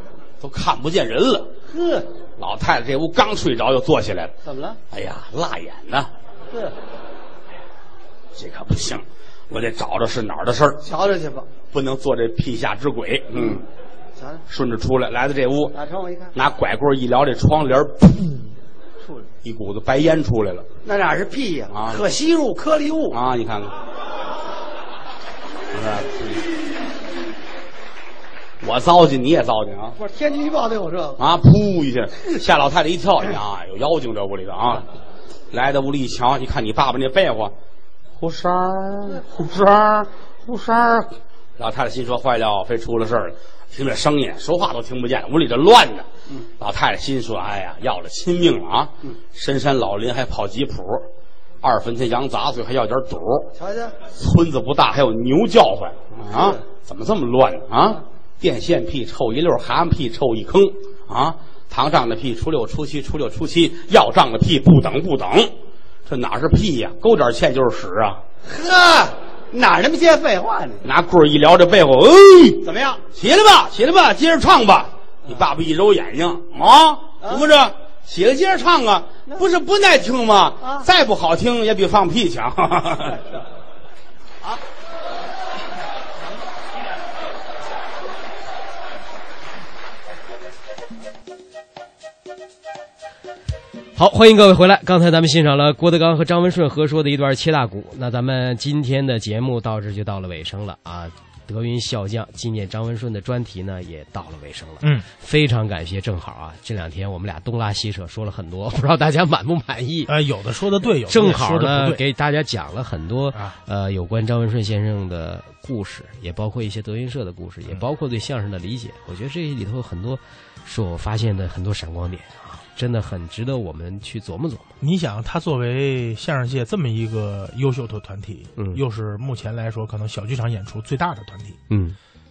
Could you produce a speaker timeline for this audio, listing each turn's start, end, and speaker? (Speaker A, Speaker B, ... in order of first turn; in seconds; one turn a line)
Speaker A: 0.4-1.5
Speaker B: 1.7-2.1
Speaker A: 2.4-4.3
Speaker B: 4.5-4.8
Speaker A: 4.9-6.1
Speaker B: 6.5-6.8
Speaker A: 8.3-10.8
Speaker B: 10.8-11.5
Speaker A: 11.7-13.6
Speaker B: 13.4-13.6
Speaker B: 14.2-14.4
Speaker A: 14.5-15.8
Speaker B: 15.7-16.3
Speaker A: 16.3-18.5
Speaker A: 19.4-20.7
Speaker B: 20.9-23.2
Speaker A: 21.7-22.1
Speaker A: 23.1-23.8
Speaker A: 25.7-26.4
Speaker A: 28.6-29.9
Speaker B: 30.0-31.2
Speaker A: 31.2-34.9
Speaker A: 35.5-37.5
Speaker A: 38.2-46.1
Speaker A: 46.6-51.1
Speaker A: 51.6-53.5
Speaker B: 53.6-54.0
Speaker A: 54.0-65.5
Speaker B: 56.3-56.6
Speaker A: 66.1-68.2
Speaker B: 68.5-70.8
Speaker A: 70.8-83.2
Speaker B: 72.6-73.0
Speaker C: 94.0-110.1
Speaker D: 110.1-112.0
Speaker C: 111.1-124.8
Speaker D: 124.8-131.6
Speaker C: 131.7-132.0